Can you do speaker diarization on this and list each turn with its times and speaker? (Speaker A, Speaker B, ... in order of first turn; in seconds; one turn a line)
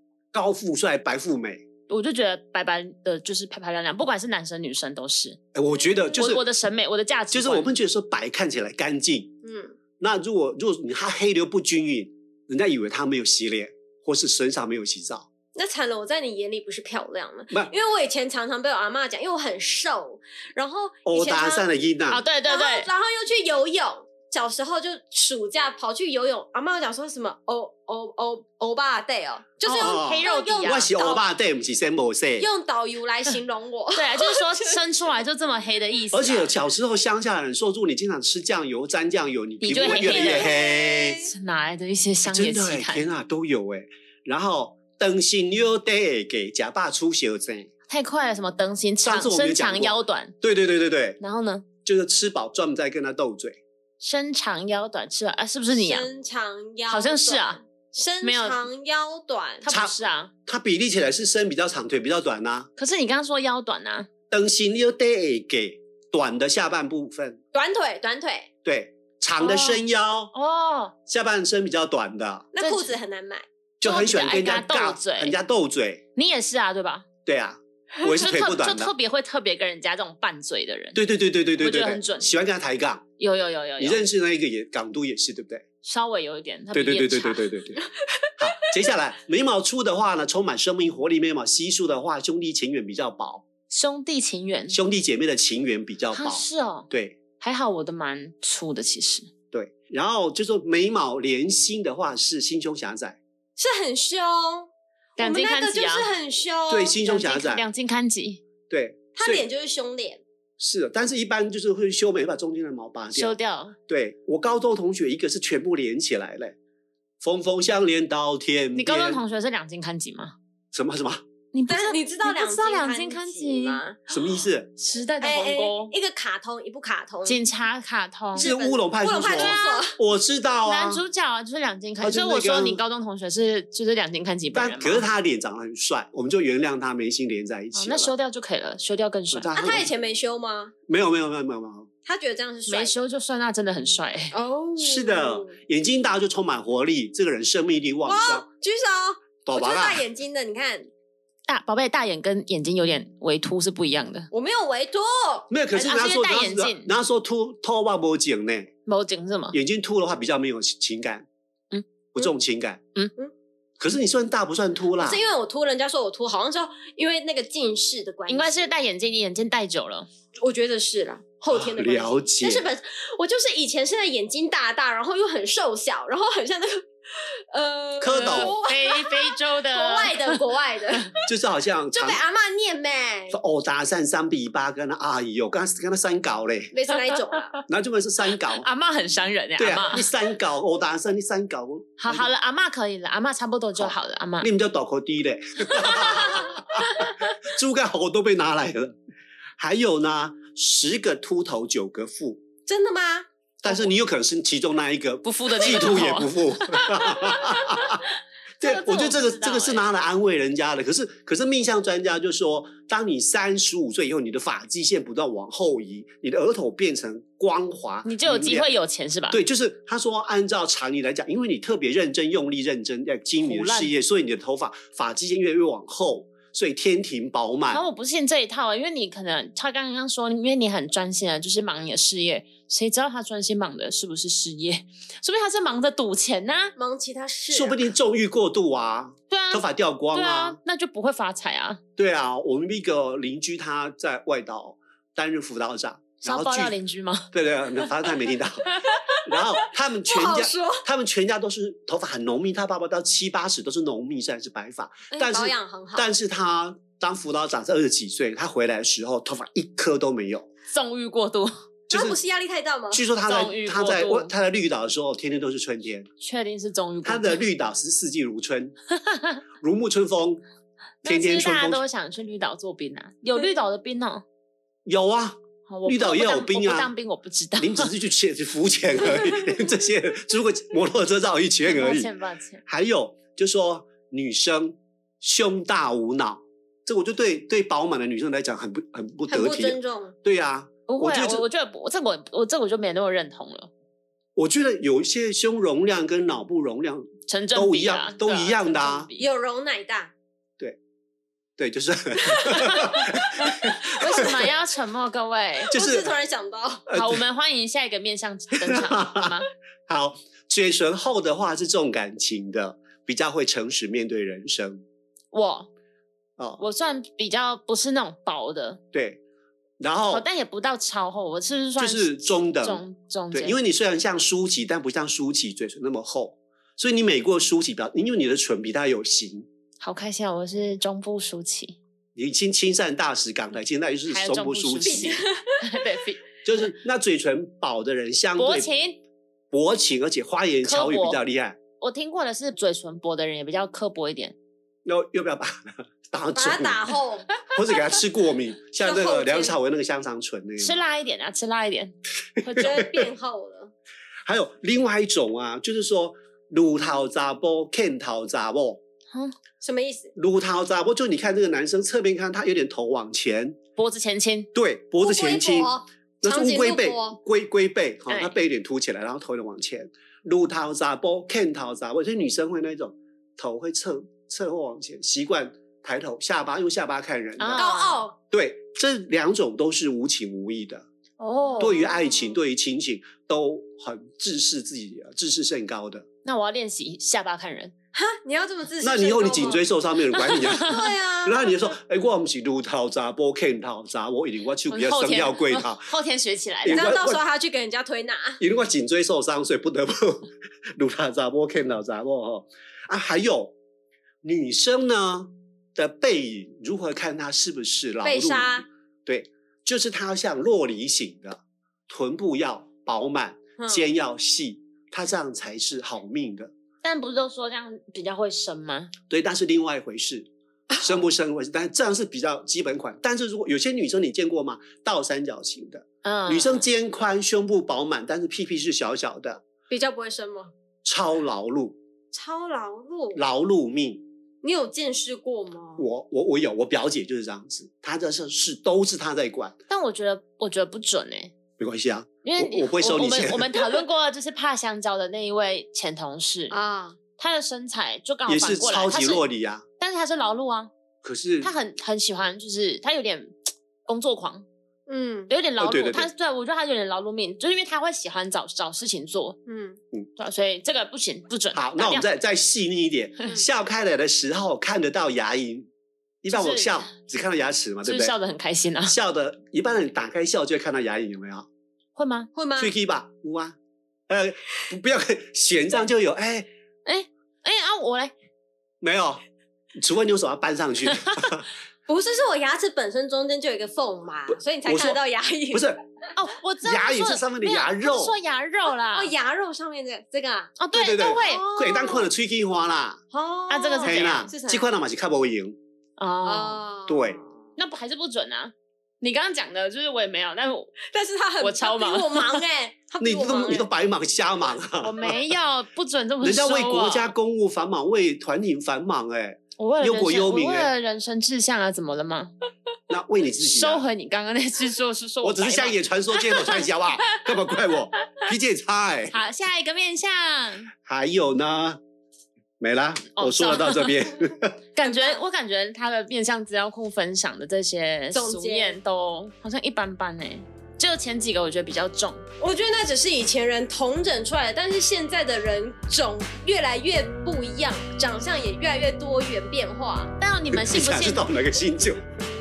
Speaker A: 0.3-1.6
Speaker B: 1.9-5.4
Speaker A: 5.5-6.5
Speaker B: 6.2-7.7
Speaker A: 7.3-9.3
Speaker C: 9.4-9.8
Speaker A: 10.0-15.3
Speaker C: 15.6-21.7
Speaker A: 21.1-22.2
Speaker B: 22.1-22.9
Speaker C: 22.5-31.2
Speaker B: 29.6-30.9
Speaker A: 29.8-32.5
Speaker C: 32.4-34.8
Speaker B: 33.9-36.5
Speaker A: 36.1-41.2
Speaker B: 39.6-40.5
Speaker C: 39.8-41.3
Speaker B: 41.2-43.1
Speaker A: 42.3-47.7
Speaker B: 47.9-50.3
Speaker A: 49.0-51.2
Speaker B: 51.2-51.7
Speaker A: 51.8-53.6
Speaker B: 54.0-56.1
Speaker C: 55.7-59.7
Speaker B: 56.9-57.6
Speaker B: 58.2-58.6
Speaker B: 59.6-60.3
Speaker A: 59.7-62.7
Speaker B: 62.8-64.1
Speaker A: 64.3-67.4
Speaker C: 67.5-68.5
Speaker A: 68.6-70.3
Speaker B: 69.4-69.8
Speaker B: 70.3-70.9
Speaker A: 71.1-72.5
Speaker C: 72.5-73.4
Speaker B: 72.6-73.0
Speaker A: 73.8-76.0
Speaker B: 73.8-75.4
Speaker B: 76.2-77.0
Speaker A: 77.3-78.9
Speaker B: 78.0-81.0
Speaker A: 80.9-83.0
Speaker B: 81.6-82.3
Speaker B: 83.2-84.1
Speaker A: 83.8-85.6
Speaker B: 85.8-87.5
Speaker A: 86.7-87.8
Speaker A: 88.4-93.4
Speaker B: 93.7-94.8
Speaker A: 94.7-97.2
Speaker B: 96.1-96.9
Speaker B: 97.4-99.3
Speaker A: 99.5-103.2
Speaker C: 103.6-107.0
Speaker B: 105.2-106.1
Speaker A: 106.7-107.7
Speaker B: 107.0-108.4
Speaker A: 108.7-109.5
Speaker C: 109.2-110.2
Speaker A: 110.6-113.4
Speaker B: 113.1-113.8
Speaker A: 113.9-116.6
Speaker A: 117.2-119.2
Speaker B: 118.8-120.3
Speaker A: 120.7-121.2
Speaker B: 121.5-124.2
Speaker C: 121.7-124.0
Speaker A: 124.1-124.7
Speaker B: 124.8-125.9
Speaker C: 125.2-127.4
Speaker B: 127.3-128.5
Speaker C: 128.3-130.0
Speaker A: 128.3-131.0
Speaker B: 129.3-129.9
Speaker B: 130.7-135.1
Speaker A: 132.0-132.8
Speaker A: 134.5-138.1
Speaker B: 137.7-139.8
Speaker A: 139.3-139.9
Speaker C: 139.5-140.7
Speaker A: 140.9-141.9
Speaker C: 142.1-143.0
Speaker B: 142.7-144.3
Speaker C: 144.3-145.6
Speaker A: 144.8-148.4
Speaker C: 148.1-150.9
Speaker A: 149.4-150.1
Speaker B: 151.5-154.3
Speaker C: 154.3-155.5
Speaker A: 155.5-158.7
Speaker B: 155.7-156.9
Speaker B: 158.9-159.6
Speaker A: 159.5-161.3
Speaker A: 162.1-162.8
Speaker A: 163.8-165.2
Speaker C: 164.9-168.7
Speaker B: 168.3-170.1
Speaker C: 170.4-181.1
Speaker A: 171.5-172.7
Speaker A: 178.0-178.6
Speaker B: 178.2-180.4
Speaker A: 181.3-182.2
Speaker C: 181.9-183.4
Speaker A: 183.3-186.7
Speaker C: 186.7-187.6
Speaker A: 187.7-188.7
Speaker B: 188.6-190.1
Speaker A: 189.6-192.3
Speaker B: 192.0-194.5
Speaker A: 193.8-198.9
Speaker B: 195.8-197.2
Speaker A: 199.6-202.4
Speaker C: 202.7-203.3
Speaker A: 203.6-208.0
Speaker B: 205.2-207.8
Speaker B: 208.6-209.9
Speaker A: 208.6-218.7
Speaker B: 218.1-219.4
Speaker A: 219.3-227.8
Speaker B: 223.4-223.9
Speaker B: 227.7-236.7
Speaker C: 236.8-237.9
Speaker A: 237.5-240.6
Speaker B: 239.3-241.8
Speaker A: 242.0-246.8
Speaker B: 246.2-247.9
Speaker A: 247.3-260.5
Speaker C: 250.1-250.8
Speaker C: 255.3-256.1
Speaker B: 260.7-261.5
Speaker A: 261.9-262.2
Speaker C: 261.9-263.0
Speaker A: 262.9-266.1
Speaker B: 263.3-264.3
Speaker B: 266.2-267.4
Speaker A: 267.1-268.7
Speaker B: 269.0-269.4
Speaker A: 269.6-270.4
Speaker B: 271.0-274.2
Speaker A: 271.1-271.8
Speaker A: 274.9-276.9
Speaker B: 275.7-277.9
Speaker A: 277.6-282.1
Speaker B: 281.6-282.6
Speaker A: 282.7-291.4
Speaker C: 289.3-290.1
Speaker B: 290.9-293.7
Speaker A: 294.4-299.1
Speaker B: 297.3-299.3
Speaker C: 299.2-300.1
Speaker A: 301.6-304.4
Speaker C: 302.4-302.7
Speaker B: 303.8-305.7
Speaker A: 305.7-306.1
Speaker C: 305.7-306.9
Speaker A: 306.9-307.2
Speaker B: 306.9-309.5
Speaker A: 308.6-314.8
Speaker B: 315.3-315.7
Speaker A: 316.4-316.6
Speaker B: 316.6-318.8
Speaker A: 318.9-319.2
Speaker A: 319.8-320.2
Speaker B: 320.1-323.6
Speaker A: 321.8-329.5
Speaker B: 329.8-331.8
Speaker A: 332.2-335.1
Speaker B: 334.1-336.2
Speaker C: 334.8-335.6
Speaker A: 336.4-338.7
Speaker B: 338.4-339.0
Speaker A: 339.5-341.6
Speaker B: 340.6-341.2
Speaker B: 341.8-344.3
Speaker A: 344.8-350.8
Speaker C: 346.3-347.3
Speaker C: 348.8-349.6
Speaker B: 350.6-353.0
Speaker A: 352.4-352.7
Speaker C: 352.6-353.7
Speaker A: 354.3-358.8
Speaker C: 359.6-360.1
Speaker A: 360.1-363.6
Speaker B: 363.8-364.5
Speaker A: 364.5-377.6
Speaker C: 365.0-367.2
Speaker B: 368.1-368.4
Speaker B: 377.4-378.1
Speaker C: 377.5-378.2
Speaker A: 378.3-380.9
Speaker B: 381.2-381.8
Speaker C: 381.5-382.4
Speaker A: 381.6-386.1
Speaker B: 386.2-387.7
Speaker C: 387.9-389.7
Speaker A: 388.8-395.9
Speaker B: 390.1-390.8
Speaker C: 390.6-391.6
Speaker B: 394.7-396.9
Speaker A: 396.6-397.2
Speaker C: 396.7-398.4
Speaker A: 398.4-403.6
Speaker A: 404.2-416.5
Speaker C: 408.0-408.7
Speaker C: 413.6-413.9
Speaker B: 416.8-418.9
Speaker A: 419.1-429.4
Speaker B: 426.0-426.7
Speaker C: 429.7-430.5
Speaker A: 430.8-431.8
Speaker C: 432.1-433.2
Speaker A: 433.1-434.0
Speaker C: 434.4-435.8
Speaker A: 435.8-439.6
Speaker B: 439.7-441.3
Speaker A: 441.6-443.8
Speaker B: 442.2-446.6
Speaker C: 446.5-447.0
Speaker B: 447.2-449.2
Speaker A: 448.3-449.6
Speaker B: 449.8-450.7
Speaker A: 451.0-451.5
Speaker B: 451.4-454.4
Speaker C: 454.9-455.3
Speaker B: 455.3-459.4
Speaker A: 455.6-456.1
Speaker C: 459.5-459.8
Speaker B: 460.2-462.1
Speaker A: 461.5-465.7
Speaker A: 466.2-468.1
Speaker B: 466.3-466.9
Speaker B: 467.8-469.0
Speaker A: 468.9-471.5
Speaker B: 471.9-472.3
Speaker C: 472.3-472.7
Speaker A: 472.6-473.6
Speaker A: 474.1-476.5
Speaker B: 476.8-478.1
Speaker A: 478.8-479.2
Speaker A: 479.8-481.5
Speaker B: 481.0-481.3
Speaker C: 481.9-485.7
Speaker A: 484.6-485.8
Speaker B: 486.2-489.1
Speaker A: 486.6-488.1
Speaker C: 488.7-492.1
Speaker B: 490.6-491.5
Speaker A: 490.7-493.0
Speaker C: 493.1-494.7
Speaker B: 493.5-494.3
Speaker A: 493.8-495.6
Speaker B: 496.0-496.6
Speaker C: 496.2-497.3
Speaker A: 496.9-497.2
Speaker B: 497.6-500.7
Speaker C: 500.9-503.7
Speaker B: 501.4-502.4
Speaker A: 503.0-505.2
Speaker B: 504.8-507.1
Speaker A: 506.2-510.7
Speaker B: 509.6-512.3
Speaker A: 512.9-513.9
Speaker B: 513.4-517.2
Speaker A: 515.2-519.2
Speaker B: 519.1-520.7
Speaker A: 520.9-521.8
Speaker A: 522.6-524.6
Speaker B: 523.1-524.0
Speaker B: 524.8-532.2
Speaker C: 524.8-525.2
Speaker C: 528.1-528.8
Speaker C: 532.4-540.1
Speaker B: 540.2-541.3
Speaker A: 540.5-542.0